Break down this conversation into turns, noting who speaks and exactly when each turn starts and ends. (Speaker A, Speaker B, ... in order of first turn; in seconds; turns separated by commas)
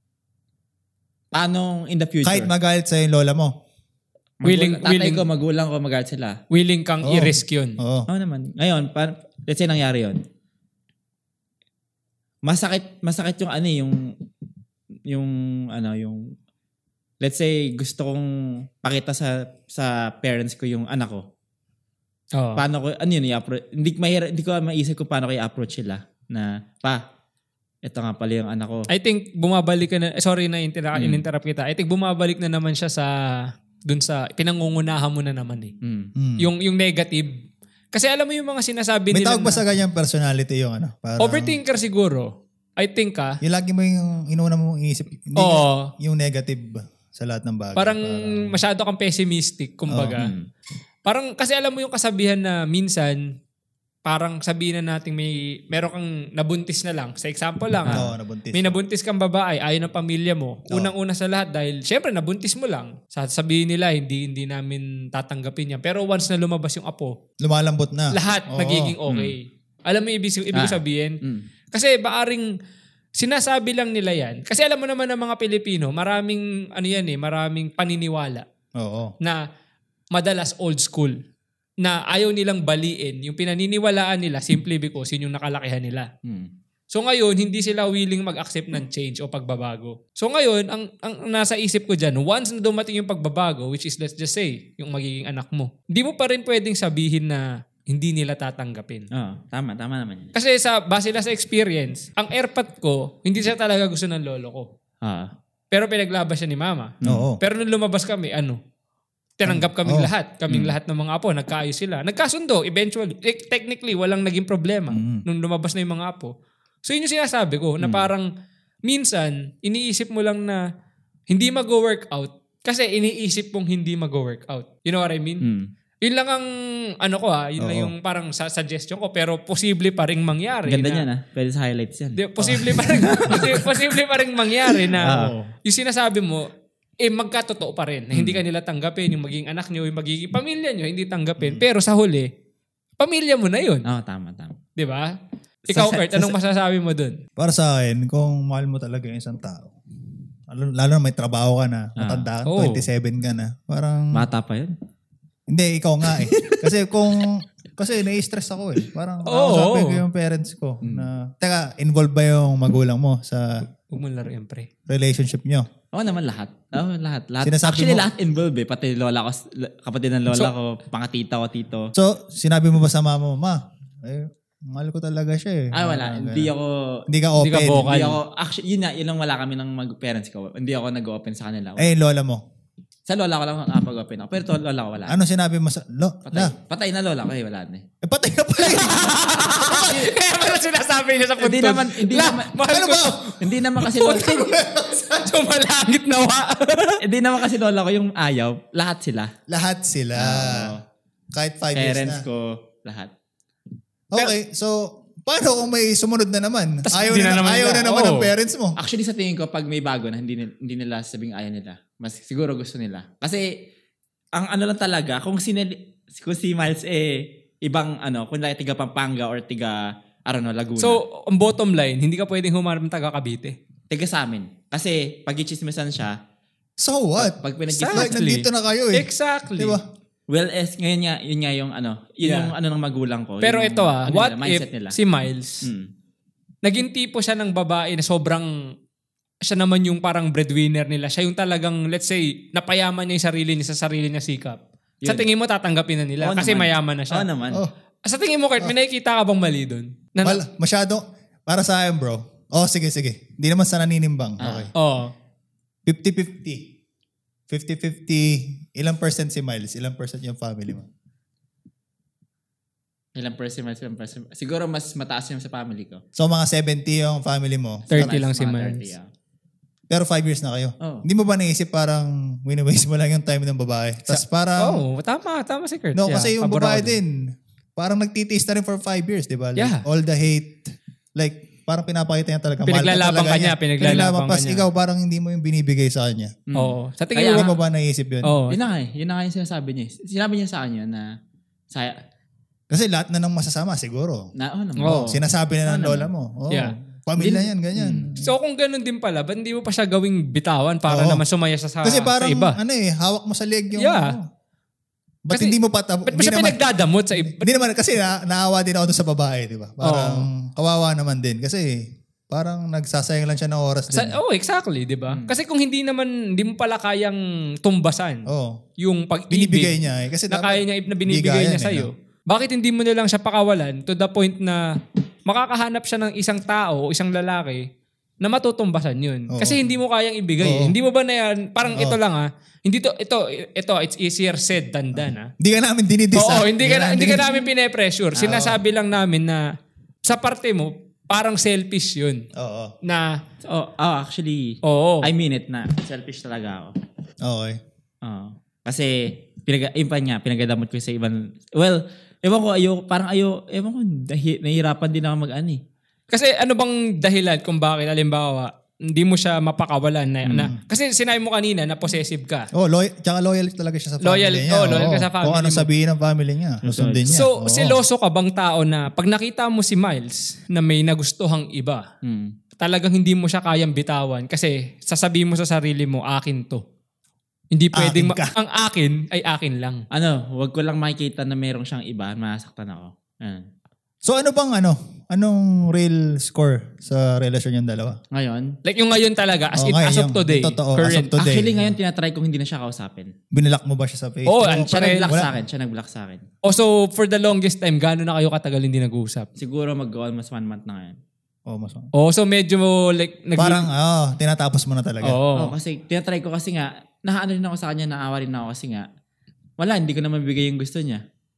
Speaker A: 1.3-2.5, Speaker B: 2.2-3.5, Speaker A: 4.4-6.4, Speaker C: 4.4-5.2, Speaker C: 6.5-7.8, Speaker B: 7.0-8.1, Speaker A: 8.1-10.2, Speaker A: 12.4-14.0, Speaker A: 15.1-16.2, Speaker A: 17.2-18.3, Speaker A: 18.8-21.2, Speaker C: 22.4-22.6, Speaker A: 22.6-27.0, Speaker A: 27.9-28.9, Speaker C: 28.9-33.1, Speaker A: 30.9-31.2, Speaker C: 33.9-35.7, Speaker A: 35.8-36.1, Speaker B: 36.2-36.5, Speaker C: 36.4-37.3, Speaker C: 37.9-39.6, Speaker B: 39.1-41.6, Speaker C: 41.2-43.4, Speaker B: 43.4-48.6, Speaker C: 45.4-45.9, Speaker C: 47.8-50.3, Speaker B: 49.9-50.2, Speaker A: 50.2-50.5, Speaker C: 51.0-53.3, Speaker C: 54.1-67.2, Speaker B: 57.9-58.8, Speaker B: 67.4-69.0, Speaker C: 68.1-71.2, Speaker A: 69.1-69.3, Speaker A: 70.5-71.5, Speaker C: 71.7-72.5, Speaker C: 73.2-78.5, Speaker B: 78.8-79.1, Speaker C: 80.1-81.2, Speaker C: 81.8-86.1, Speaker A: 86.2-86.5, Speaker C: 86.9-99.1, Speaker A: 99.1-100.3, Speaker C: 100.3-104.7, Speaker A: 105.0-105.3, Speaker C: 105.7-108.6, Speaker B: 107.0-107.4, Speaker C: 109.4-116.3, Speaker B: 109.5-110.1, Speaker B: 114.9-115.2, Speaker C: 116.8-118.3, Speaker A: 117.8-118.1, Speaker C: 118.8-120.6, Speaker C: 121.3-125.4, Speaker A: 125.4-125.7, Speaker C: 126.0-126.5, Speaker C: 127.0-131.1, Speaker B: 127.6-127.9, Speaker A: 130.7-133.8, Speaker C: 132.2-136.5, Speaker A: 134.7-135.3, Speaker C: 137.0-142.3, Speaker A: 138.1-138.4, Speaker B: 141.4-141.7, Speaker C: 143.0-143.8, Speaker A: 143.8-144.6, Speaker C: 144.8-145.1, Speaker C: 145.7-147.2, Speaker A: 145.7-146.3, Speaker B: 147.4-149.7, Speaker B: 150.5-154.2, Speaker A: 152.0-152.3, Speaker C: 152.5-152.9, Speaker A: 154.1-154.7, Speaker B: 155.5-163.5, Speaker A: 156.1-156.7, Speaker C: 159.3-160.0, Speaker A: 160.8-161.1, Speaker C: 163.9-164.7, Speaker B: 164.9-165.7, Speaker A: 165.9-171.9, Speaker B: 167.4-168.1, Speaker B: 171.9-176.5, Speaker A: 175.7-176.7, Speaker B: 177.1-178.0, Speaker C: 177.4-178.2, Speaker A: 177.8-181.9, Speaker B: 181.8-182.4, Speaker A: 183.1-185.2, Speaker B: 185.1-186.6, Speaker A: 186.3-187.8, Speaker B: 188.0-190.1, Speaker C: 188.6-193.4, Speaker A: 191.4-192.6, Speaker B: 192.7-195.3, Speaker A: 193.4-194.4, Speaker C: 194.0-197.0, Speaker A: 197.0-199.3, Speaker B: 199.5-200.8, Speaker A: 200.2-200.8, Speaker B: 201.3-202.2, Speaker A: 201.7-203.1, Speaker B: 204.1-208.8, Speaker C: 206.9-208.3, Speaker A: 208.8-213.4, Speaker A: 214.3-221.0, Speaker C: 220.8-223.6, Speaker A: 223.9-226.2, Speaker B: 226.8-229.8, Speaker A: 227.2-228.2, Speaker C: 227.7-229.8, Speaker A: 230.3-235.0, Speaker C: 232.2-232.5, Speaker C: 233.4-235.6, Speaker C: 236.6-238.5, Speaker C: 239.5-247.3, Speaker A: 245.0-245.3, Speaker A: 246.2-247.6, Speaker C: 248.1-250.4, Speaker B: 250.2-254.7, Speaker A: 254.4-254.7, Speaker C: 254.8-255.1, Speaker B: 255.9-256.7, Speaker B: 257.5-260.9, Speaker A: 263.2-266.0, Speaker B: 266.2-268.1, Speaker A: 267.9-269.1, Speaker C: 267.9-268.9, Speaker B: 269.9-274.8, Speaker C: 274.1-276.9, Speaker B: 275.9-277.3, Speaker B: 277.8-286.4, Speaker C: 279.6-279.8, Speaker C: 282.6-284.7, Speaker A: 286.5-287.5, Speaker C: 286.6-287.6, Speaker B: 287.3-288.4, Speaker C: 288.2-288.6, Speaker A: 288.5-291.1, Speaker B: 292.7-298.3, Speaker A: 294.4-295.0, Speaker C: 294.8-295.2, Speaker A: 295.7-296.1, Speaker C: 296.5-302.6, Speaker B: 300.9-301.2, Speaker B: 301.8-304.2, Speaker C: 303.8-304.2, Speaker B: 305.2-306.6, Speaker C: 306.1-307.5, Speaker B: 307.2-314.2, Speaker C: 309.8-310.3, Speaker C: 313.9-318.3, Speaker A: 315.1-315.4, Speaker B: 318.3-318.6, Speaker C: 318.8-319.8, Speaker B: 319.3-321.9, Speaker C: 320.3-324.6, Speaker C: 325.3-327.6, Speaker C: 328.2-335.3, Speaker B: 329.3-329.6, Speaker B: 330.4-330.8, Speaker B: 331.7-332.0, Speaker B: 335.0-337.5, Speaker C: 336.1-339.4, Speaker A: 338.2-338.6, Speaker C: 340.1-342.2, Speaker B: 342.4-342.7, Speaker C: 342.9-343.1, Speaker A: 343.4-346.7, Speaker C: 344.6-345.1, Speaker B: 347.2-347.6, Speaker A: 348.0-355.6, Speaker C: 356.1-362.5, Speaker B: 360.3-360.6, Speaker B: 362.5-367.8, Speaker C: 364.0-365.7, Speaker A: 366.6-367.1, Speaker C: 367.1-371.9, Speaker A: 372.0-372.3, Speaker C: 372.6-376.6, Speaker C: 377.5-379.9, Speaker B: 377.7-378.4, Speaker A: 379.9-383.4, Speaker B: 384.0-388.0, Speaker A: 388.1-388.6, Speaker C: 388.6-391.2, Speaker B: 389.6-391.8, Speaker A: 391.2-393.1, Speaker B: 393.3-395.4, Speaker C: 394.3-395.1, Speaker A: 394.6-396.2, Speaker C: 396.4-399.3, Speaker A: 399.4-401.0, Speaker B: 401.5-401.9, Speaker C: 401.9-403.7, Speaker B: 403.4-405.2, Speaker C: 405.0-405.5, Speaker A: 405.4-408.9, Speaker A: 409.6-411.0